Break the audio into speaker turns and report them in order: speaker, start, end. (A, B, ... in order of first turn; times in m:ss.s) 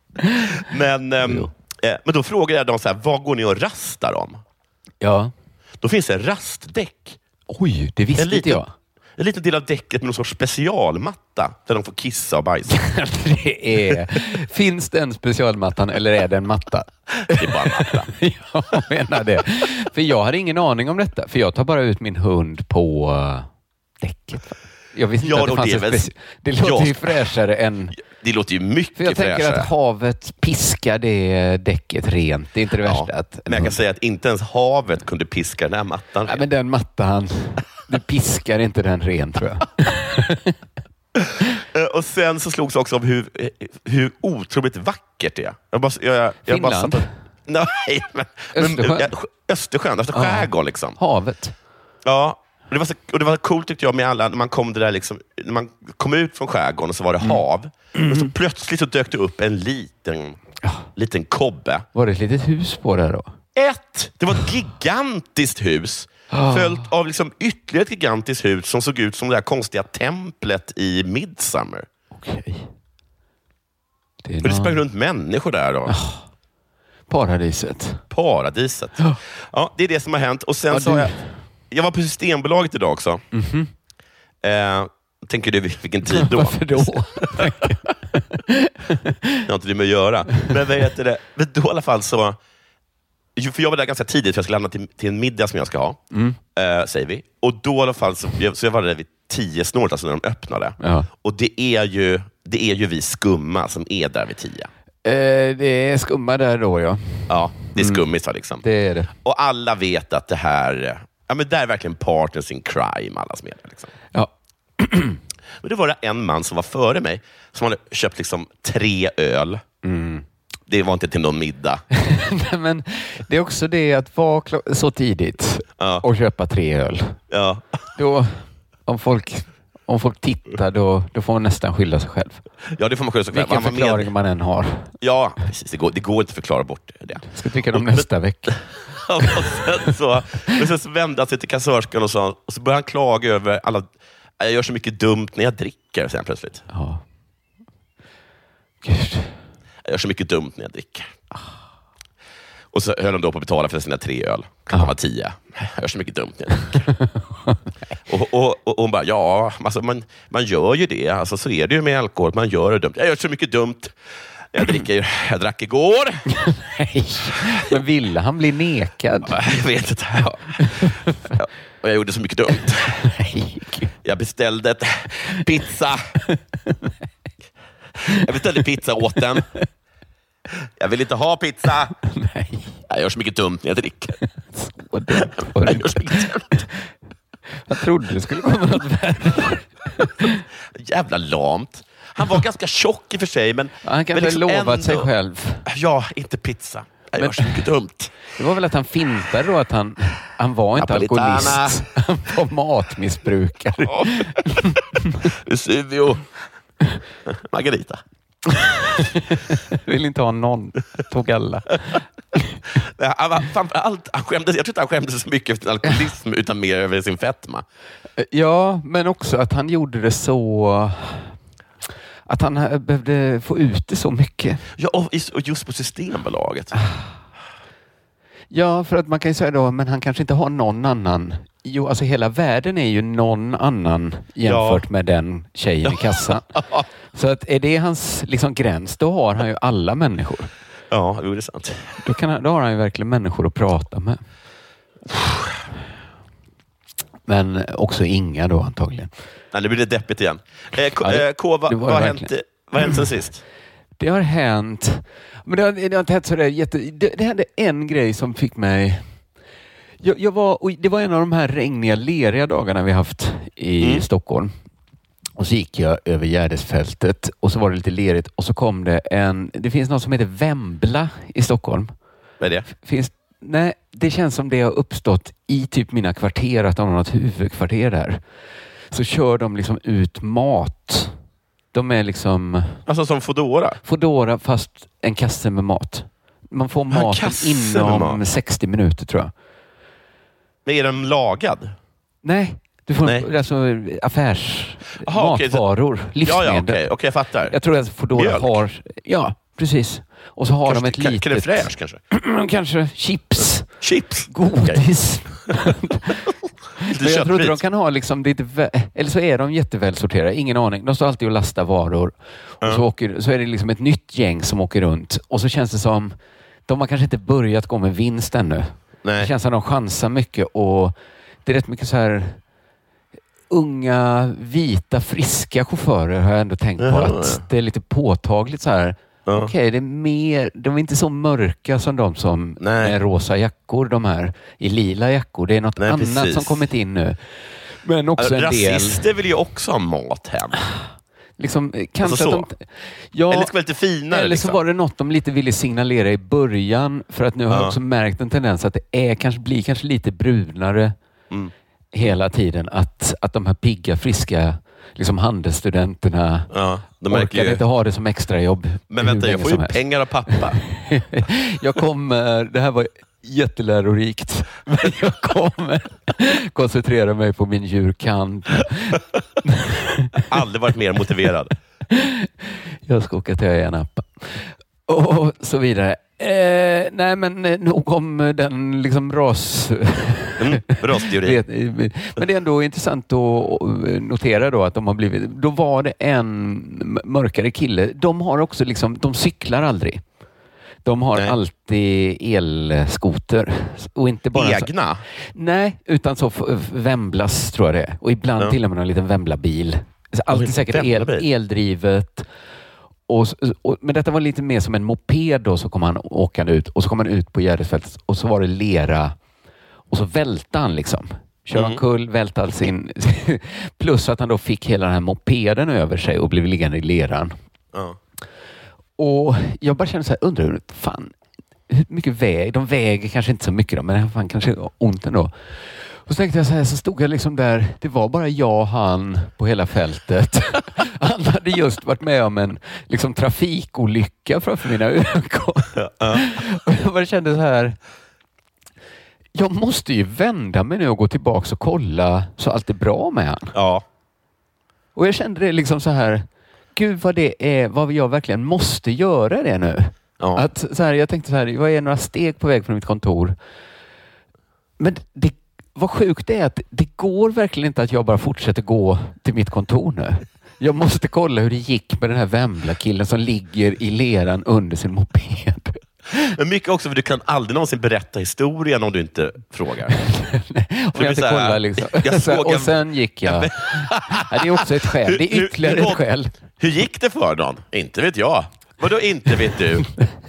0:00.5-0:04.4 A
0:01.2-0:01.5 B
0:05.0-0:05.3 B
0:05.8-0:07.2 A
0:07.5-0:08.7 B
0:08.2-0:08.6 A
0:09.2-0:12.8 A
0:12.7-0:23.5 B
0:17.3-0:18.1 A
0:24.0-0:28.0 B
0:25.2-0:26.1 A
0:26.6-0:27.2 A
0:28.0-0:29.7 A
0:29.0-0:33.8 B
0:32.8-0:36.4 A
0:36.2-0:40.5 B
0:41.2-0:51.0 A
0:46.5-0:47.1 B
0:48.5-0:49.1 B
0:50.1-0:51.5 B
0:52.0-1:00.4 A
0:58.0-0:58.3 B
1:01.0-1:01.8 A
1:01.9-1:03.3 B
1:03.5-1:11.9 A
1:06.3-1:06.9 B
1:12.1-1:12.7 B
1:14.2-1:14.8 B
1:14.4-1:15.9 A
1:15.9-1:16.2 B
1:17.1-1:18.0 B
1:18.1-1:21.2 A
1:20.7-1:21.4 B
1:21.7-1:23.2 A
1:23.3-1:23.7 B
1:24.4-1:27.5 A
1:26.0-1:29.4 B
1:29.4-1:32.4 A
1:33.4-1:36.0 A
1:36.1-1:36.4 B
1:36.5-1:44.7 A
1:40.8-1:41.1 B
1:45.0-1:48.0 B
1:47.3-1:48.6 A
1:48.6-1:49.1 B
1:49.2-1:53.9 A
1:54.1-1:55.2 B
1:55.6-1:59.6 A
1:59.8-2:00.2 B
2:00.7-2:01.8 A
2:01.9-2:07.2 B
2:05.8-2:06.0 A
2:07.3-2:07.8 A
2:08.0-2:12.4 B
2:12.7-2:14.1 A
2:13.3-2:14.9 B
2:15.0-2:26.6 A
2:17.2-2:18.7 B
2:26.7-2:27.0 B
2:28.8-2:29.4 B
2:29.8-2:31.1 A
2:32.7-2:36.9 A
2:37.1-2:37.6 B
2:38.1-2:44.0 A
2:44.5-2:46.3 A
2:46.3-2:49.4 B
2:49.2-2:53.0 A
2:50.7-2:51.1 B
2:53.0-2:53.9 B
2:54.0-2:56.2 A
2:56.3-2:56.9 B
2:58.1-2:59.5 A
3:00.8-3:01.9 A
3:02.0-3:02.8 B
3:02.9-3:04.1 A
3:04.2-3:06.8 B
3:05.4-3:06.6 A
3:07.7-3:10.4 B
3:10.7-3:15.1 A
3:13.8-3:15.6 B
3:15.6-3:18.2 A
3:17.2-3:17.6 B
3:18.3-3:25.2 B
3:20.8-3:21.8 A
3:23.9-3:24.3 A
3:25.3-3:26.3 A
3:27.3-3:28.0 A
3:28.5-3:32.5 B
3:32.8-3:37.6 A
3:38.2-3:41.3 B
3:42.3-3:44.6 B
3:44.8-3:46.8 A
3:48.5-3:56.5 B
3:54.4-3:54.8 A
3:56.5-3:56.8 A
3:57.1-4:00.5 B
4:00.9-4:02.0 A
4:02.0-4:04.2 B
4:05.1-4:05.5 A
4:07.3-4:09.1 B
4:09.5-4:13.4 A
4:11.0-4:12.3 B
4:14.0-4:19.1 B
4:20.0-4:24.5 B
4:25.4-4:31.9 B
4:32.4-4:32.7 A
4:32.7-4:38.2 B
4:38.9-4:41.2 B
4:41.7-4:42.8 B
4:42.8-4:43.8 A
4:43.8-4:49.3 B
4:46.9-4:48.2 A
4:50.6-4:51.7 A
4:52.2-4:56.8 B
4:55.0-4:55.6 A
4:56.2-4:57.6 A
4:57.5-5:06.2 B
4:58.1-4:58.6 A
5:00.6-5:02.0 A
5:03.8-5:04.8 A
5:06.8-5:22.4 B
5:06.8-5:07.6 A
5:19.0-5:19.3 A
5:23.5-5:37.2 B
5:26.8-5:27.4 A
5:29.2-5:29.5 A
5:32.6-5:33.0 A
5:35.8-5:36.6 A
5:37.8-5:39.0 B
5:38.2-5:40.6 A
5:41.4-5:43.5 B
5:42.0-5:42.4 A
5:43.3-5:44.6 A
5:44.1-5:50.9 B
5:47.5-5:47.8 A
5:51.9-5:56.5 B
5:56.5-5:57.6 A
5:57.1-6:10.2 B
5:58.9-6:00.6 A
6:10.3-6:11.5 A
6:11.9-6:12.3 B
6:12.8-6:30.0 B
6:20.4-6:21.4 A
6:30.8-6:34.7 B
6:34.3-6:35.0 A
6:35.3-6:42.3 B
6:40.3-6:41.2 A
6:43.1-6:49.1 B
6:49.9-6:57.3 B
6:51.5-6:51.8 A
6:59.0-7:01.1 B
7:01.7-7:05.3 B
7:06.0-7:17.8 B
7:15.7-7:16.3 A
7:19.3-7:23.5 B
7:23.5-7:23.8 A
7:25.0-7:33.4 B
7:30.2-7:30.4 A
7:34.8-7:45.8 B
7:46.1-7:49.9 A
7:49.9-7:56.3 B
7:50.9-7:59.9 A